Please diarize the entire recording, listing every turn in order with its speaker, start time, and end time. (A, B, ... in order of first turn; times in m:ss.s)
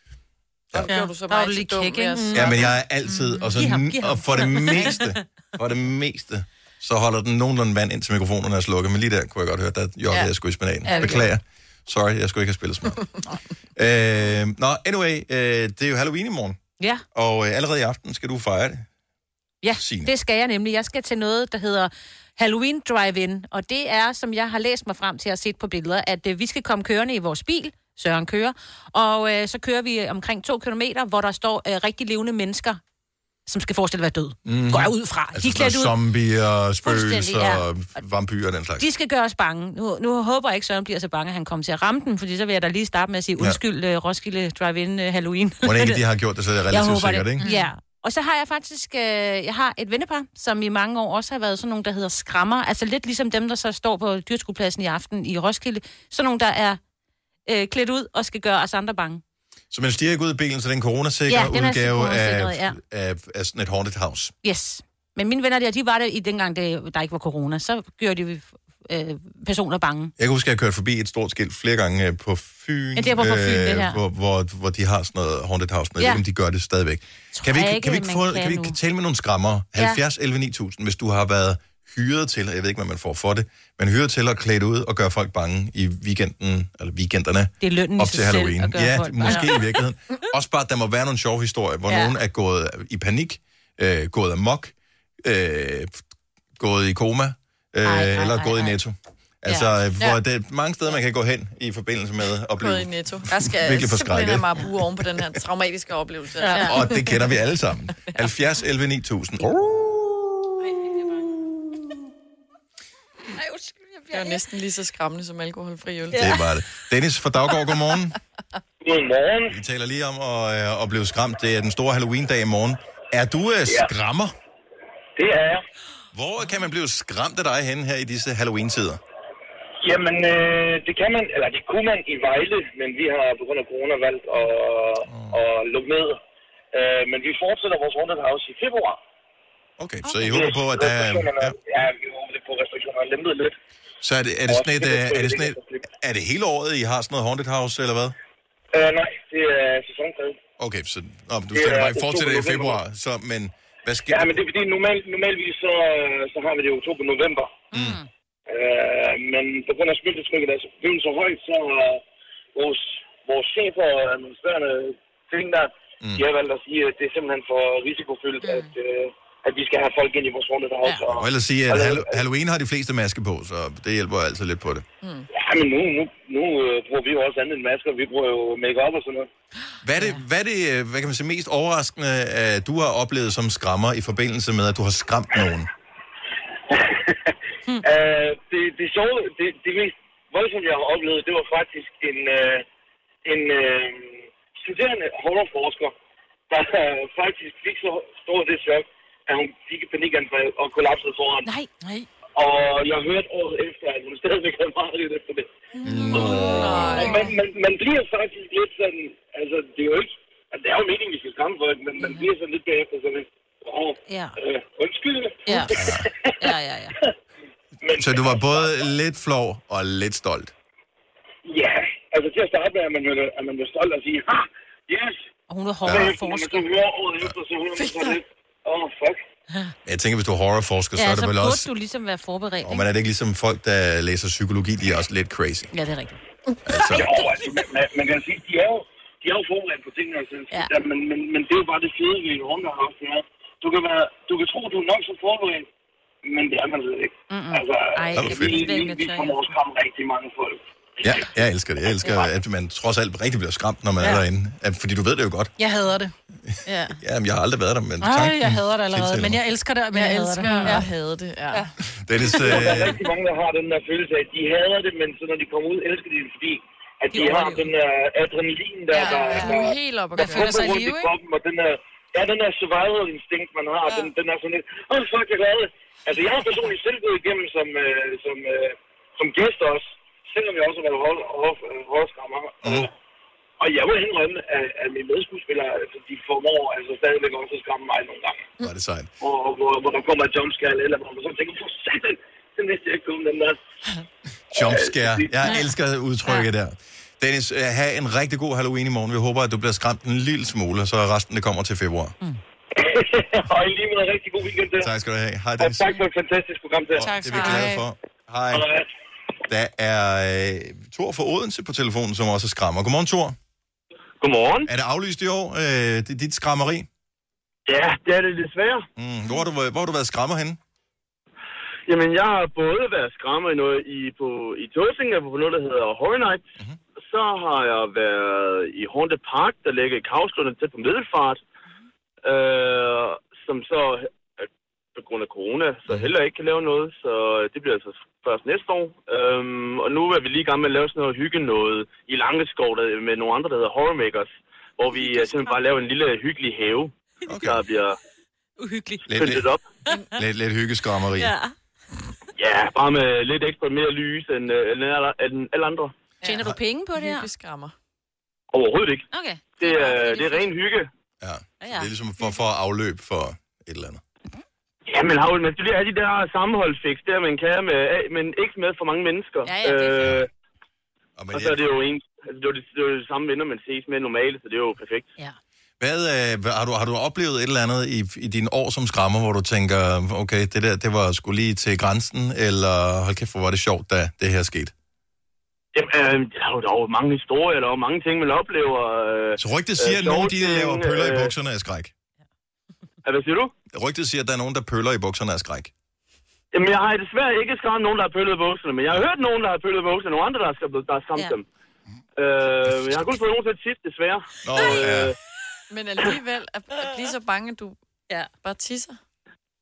0:00.7-0:02.6 A
0:00.8-0:02.6 B
0:02.2-0:02.5 C
0:02.3-0:13.0 D
0:03.5-0:05.2 C
0:10.9-0:11.3 B
0:13.8-0:16.6 D
0:17.1-0:18.8 D
0:19.6-0:32.8 C
0:19.8-0:20.1 D
0:33.5-0:36.0 C
0:34.4-0:38.9 D
0:36.8-0:37.6 C
0:38.8-0:46.0 C
0:45.6-0:47.4 D
0:46.7-0:56.8 C
0:47.4-0:47.7 B
0:57.4-0:59.2 C
0:59.7-1:04.3 D
1:01.3-1:02.8 C
1:04.4-1:10.1 C
1:10.2-1:36.0 D
1:13.0-1:14.0 C
1:17.3-1:18.8 C
1:19.8-1:20.0 C
1:27.6-1:29.8 C
1:31.9-1:32.2 C
1:36.6-1:44.5 D
1:37.8-1:38.8 C
1:39.4-1:39.7 C
1:42.6-1:46.8 A
1:46.4-1:46.8 C
1:46.5-1:46.8 B
1:46.6-1:50.0 D
1:50.6-1:51.3 C
1:53.4-1:54.3 C
1:54.1-1:56.2 A
1:56.1-1:56.4 C
1:56.2-1:58.2 D
1:58.8-1:59.6 E
1:59.5-2:04.3 D
2:05.2-2:05.6 E
2:06.1-2:09.0 D
2:09.8-2:16.2 E
2:15.1-2:15.4 D
2:16.7-2:19.0 E
2:19.8-2:21.5 D
2:20.0-2:20.3 C
2:20.3-2:23.5 E
2:24.0-2:28.2 D
2:24.5-2:25.8 E
2:28.7-2:30.4 E
2:30.6-2:34.4 D
2:31.5-2:32.8 E
2:34.1-2:37.7 E
2:37.7-2:38.1 C
2:37.7-2:38.0 D
2:38.5-2:42.0 E
2:42.5-2:52.2 E
2:48.4-2:48.7 B
2:51.0-2:54.8 D
2:55.3-2:59.3 E
2:59.8-3:05.7 D
3:06.7-3:07.2 E
3:07.8-3:12.6 E
3:13.2-3:15.9 E
3:16.5-3:21.5 E
3:21.8-3:22.1 B
3:22.4-3:25.5 E
3:25.8-3:27.3 B
3:25.8-3:27.1 D
3:26.1-3:36.3 E
3:26.2-3:27.3 A
3:34.1-3:34.4 C
3:35.5-3:35.7 C
3:35.7-3:36.1 D
3:36.4-3:37.0 C
3:37.8-3:38.9 E
3:38.0-3:40.5 D
3:41.4-3:45.2 E
3:45.5-3:46.7 C
3:45.8-3:46.1 D
3:45.9-3:49.2 E
3:47.8-3:48.2 A
3:49.8-3:51.7 D
3:51.0-3:52.9 C
3:52.6-3:55.7 D
3:55.7-3:56.2 C
3:56.6-3:57.2 D
3:56.9-4:05.7 E
4:06.2-4:11.3 E
4:07.3-4:09.5 C
4:08.1-4:08.6 D
4:11.0-4:15.5 D
4:15.6-4:16.1 B
4:16.7-4:17.0 B
4:17.0-4:19.4 D
4:18.0-4:20.9 B
4:19.9-4:21.6 A
4:22.0-4:23.0 D
4:22.4-4:29.7 E
4:27.1-4:27.7 C
4:28.9-4:30.6 A
4:29.0-4:29.7 C
4:30.1-4:31.1 B
4:30.3-4:42.9 E
4:42.6-4:42.9 D
4:43.6-4:48.5 E
4:48.6-4:49.1 D
4:49.2-4:53.6 E
4:54.5-5:02.2 D
4:54.5-4:55.4 E
5:02.7-5:04.9 E
5:04.8-5:06.0 D
5:05.6-5:07.5 E
5:07.0-5:08.7 D
5:07.0-5:07.8 B
5:08.5-5:08.8 E
5:09.5-5:13.4 D
5:14.2-5:14.7 F
5:14.7-5:16.9 D
5:17.7-5:18.8 F
5:19.0-5:20.6 D
5:21.9-5:26.4 F
5:27.0-5:31.4 F
5:32.2-5:34.1 F
5:35.0-5:48.0 F
5:45.0-5:45.5 C
5:47.3-5:47.6 D
5:48.6-5:49.1 C
5:49.1-5:49.4 D
5:49.2-5:49.6 F
5:50.2-5:51.3 D
5:51.2-5:51.5 C
5:52.4-5:55.9 F
5:56.2-5:57.3 C
5:56.9-5:57.7 A
5:58.5-5:59.0 F
5:59.1-6:00.5 C
5:59.6-6:00.9 F
6:01.2-6:04.0 D
6:01.6-6:01.9 C
6:04.9-6:10.3 F
6:09.4-6:10.1 C
6:10.0-6:10.3 D
6:11.2-6:11.6 D
6:11.3-6:15.1 F
6:15.8-6:24.7 D
6:25.7-6:31.3 F
6:29.4-6:31.9 D
6:33.0-6:33.5 F
6:33.7-6:35.7 D
6:36.5-6:41.4 F
6:42.2-6:45.1 F
6:44.4-6:45.1 D
6:45.7-6:47.8 A
6:48.4-6:49.0 A